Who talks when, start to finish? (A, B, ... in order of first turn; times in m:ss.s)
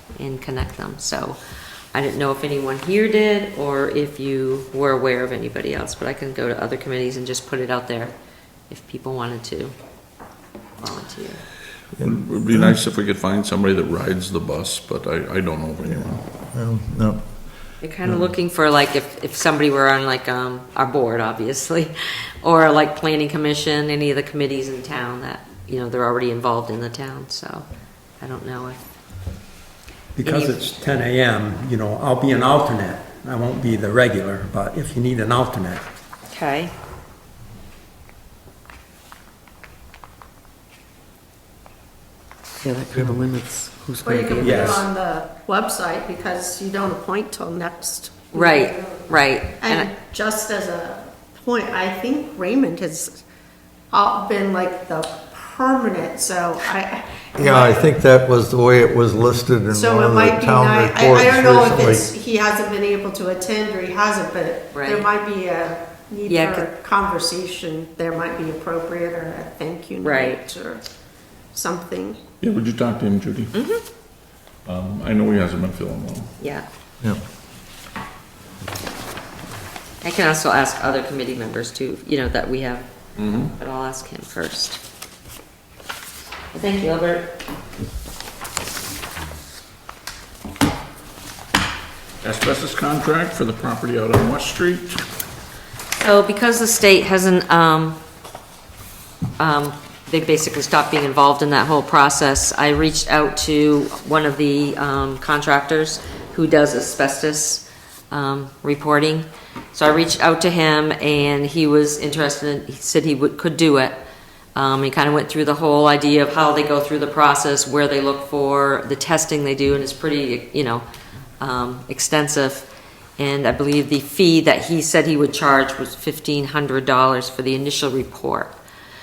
0:00.2-0:01.4 A
0:01.9-0:08.1 A
0:08.7-0:09.7 A
0:10.8-0:11.4 A
0:12.0-0:12.8 B
0:12.0-0:16.2 C
0:16.5-0:17.2 B
0:17.8-0:27.6 A
0:28.2-0:28.8 A
0:30.2-0:35.8 D
0:30.2-0:30.7 A
0:36.3-0:36.7 A
0:42.6-0:44.8 E
0:42.9-0:43.2 B
0:44.0-0:49.1 F
0:44.4-0:44.8 D
0:48.3-0:49.9 A
0:49.6-0:53.2 F
0:53.9-0:57.8 F
0:57.4-1:02.1 B
0:59.7-1:10.8 F
1:04.7-1:05.1 A
1:06.3-1:06.7 A
1:10.0-1:10.4 A
1:11.5-1:12.2 F
1:12.4-1:13.5 C
1:13.5-1:13.8 A
1:14.7-1:16.3 C
1:16.4-1:16.6 A
1:20.0-1:22.9 A
1:23.2-1:23.5 C
1:23.5-1:24.8 A
1:26.5-1:27.3 A
1:32.2-1:35.0 C
1:36.0-1:38.0 A
1:39.4-1:54.0 A
1:54.6-2:00.8 A
2:01.4-2:02.7 A
2:03.2-2:08.5 A